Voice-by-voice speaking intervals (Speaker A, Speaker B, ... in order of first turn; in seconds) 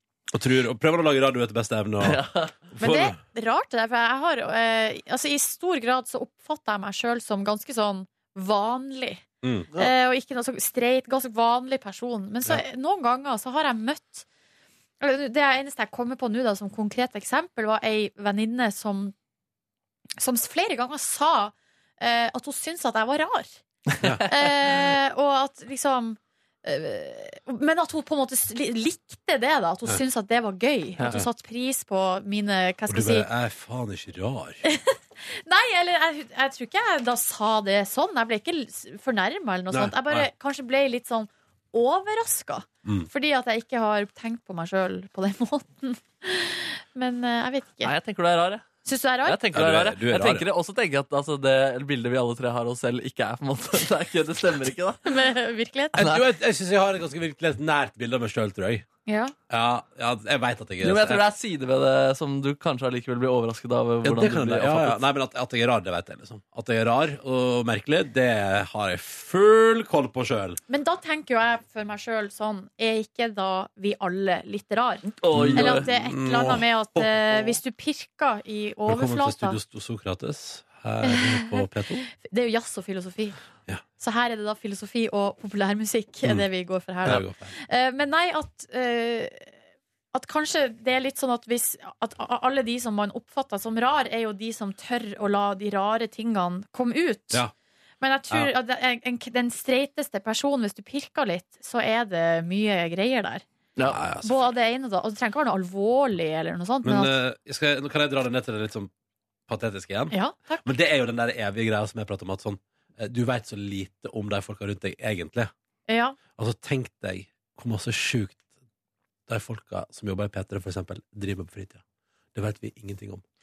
Speaker A: 0.3-3.1, 9.4-9.9, 32.9-34.6, 39.7-40.3, 49.5-50.5, 56.0-58.9, 59.5-61.2, 64.0-70.6, 75.3-77.5, 78.9-82.1, 87.0-87.5, 103.9-104.4, 106.8-108.9, 109.5-115.5, 116.4-118.4, 119.3-121.8, 122.3-123.2
Speaker B: 2.0-2.6, 23.9-24.3, 47.8-48.6, 49.2-55.0, 56.0-56.2, 60.8-65.0, 75.2-75.8
Speaker C: 2.8-14.2, 15.0-19.1, 20.2-23.6, 24.2-33.3, 34.6-47.9, 48.8-49.4, 55.0-56.0, 59.0-59.3, 70.7-79.6, 81.0-83.3, 84.0-89.5, 90.1-97.4, 98.0-103.4, 104.2-107.2, 110.1-110.6, 115.9-116.2